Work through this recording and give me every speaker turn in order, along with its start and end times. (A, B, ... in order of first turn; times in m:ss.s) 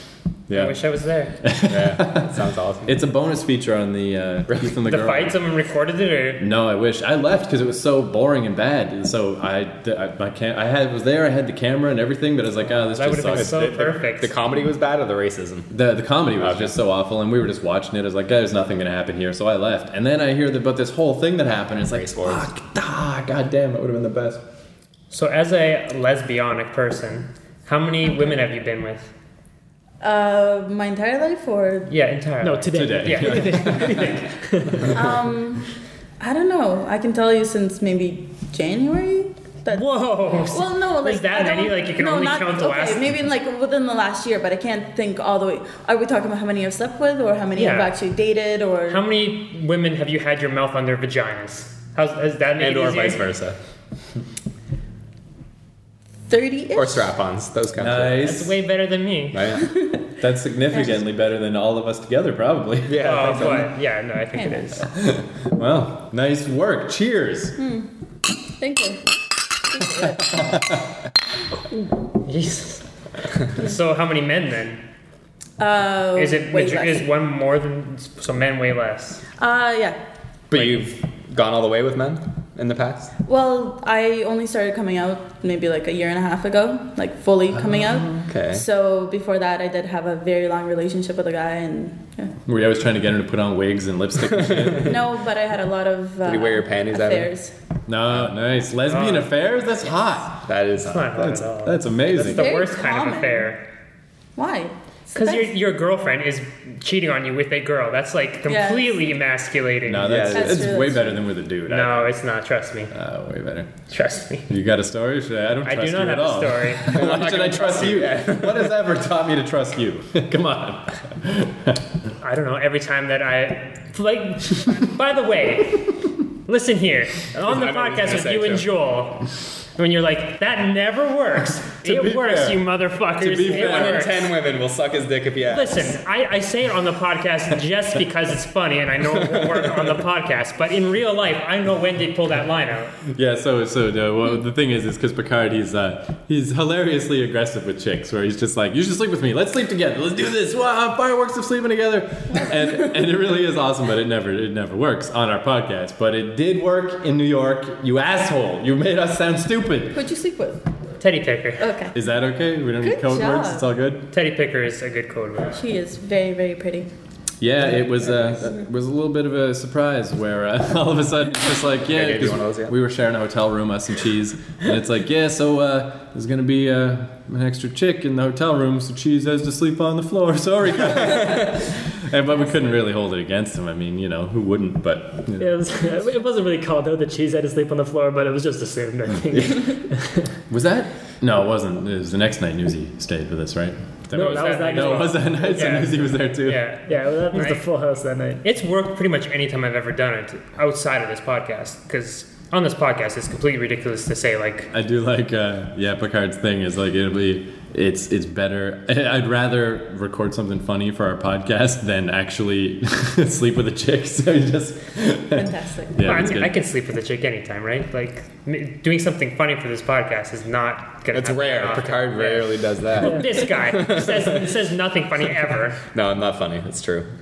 0:00.5-0:00.8 A
0:00.5-0:01.4 B
0:01.4-0:05.4 A
0:01.7-0:03.0 C
0:04.9-0:06.4 B
0:06.4-0:13.6 A
0:12.9-0:14.3 B
0:13.3-0:15.7 C
0:15.7-0:24.4 A
0:16.4-0:16.7 C
0:21.9-0:22.5 C
0:25.1-0:29.1 B
0:30.0-0:31.9 D
0:31.9-0:34.2 B
0:32.4-0:35.0 E
0:32.7-0:34.1 A
0:34.9-0:35.7 D
0:36.2-0:39.8 D
0:39.7-0:43.1 B
0:40.5-0:49.0 D
0:47.6-0:47.9 B
0:48.9-0:53.2 B
0:52.6-0:53.6 C
0:56.3-0:57.1 D
0:56.8-0:58.2 C
0:57.8-0:58.6 A
0:58.2-0:59.6 B
0:59.3-0:59.7 C
1:00.2-1:03.3 A
1:02.9-1:03.7 C
1:03.0-1:04.9 B
1:04.4-1:04.6 D
1:04.9-1:07.6 A
1:07.6-1:07.9 D
1:08.6-1:09.0 D
1:09.7-1:10.4 D
1:10.3-1:10.6 A
1:12.1-1:14.8 B
1:15.6-1:17.1 D
1:16.2-1:19.2 B
1:19.4-1:20.0 D
1:20.5-1:23.1 C
1:23.3-1:32.3 D
1:28.1-1:28.6 C
1:32.5-1:35.0 A
1:34.4-1:34.9 C
1:34.8-1:37.5 D
1:36.2-1:37.3 C
1:37.9-1:40.4 A
1:38.9-1:39.3 B
1:40.4-1:41.4 C
1:40.8-1:43.6 B
1:41.2-1:42.5 A
1:42.2-1:43.5 D
1:44.4-1:45.5 D
1:45.2-1:50.1 B
1:48.5-1:49.0 D
1:49.8-1:52.2 A
1:50.0-1:50.7 C
1:50.3-1:51.2 D
1:51.7-1:52.9 B
1:52.9-1:53.7 A
1:53.9-1:54.5 B
1:54.5-2:01.8 A
1:55.6-1:57.1 B
1:56.9-1:58.8 C
2:02.2-2:14.3 B
2:07.5-2:08.6 C
2:11.8-2:12.7 A
2:13.2-2:14.1 A
2:13.4-2:16.0 C
2:15.5-2:23.0 B
2:19.3-2:19.9 C
2:23.1-2:40.0 A
2:39.9-2:40.6 D
2:41.0-2:41.7 B
2:41.6-2:41.9 D
2:41.9-2:44.1 A
2:42.8-2:43.7 D
2:44.1-2:45.6 B
2:45.5-2:46.9 D
2:47.4-3:05.5 A
2:51.9-2:52.7 C
3:01.0-3:01.5 C
3:05.4-3:10.3 E
3:10.5-3:16.6 A
3:14.1-3:15.4 E
3:14.1-3:17.6 B
3:16.9-3:18.4 E
3:18.4-3:24.7 B
3:24.7-3:36.5 A
3:35.4-3:36.0 D
3:36.0-3:45.8 B
3:41.1-3:44.5 C
3:43.0-3:43.3 E
3:45.9-3:47.1 C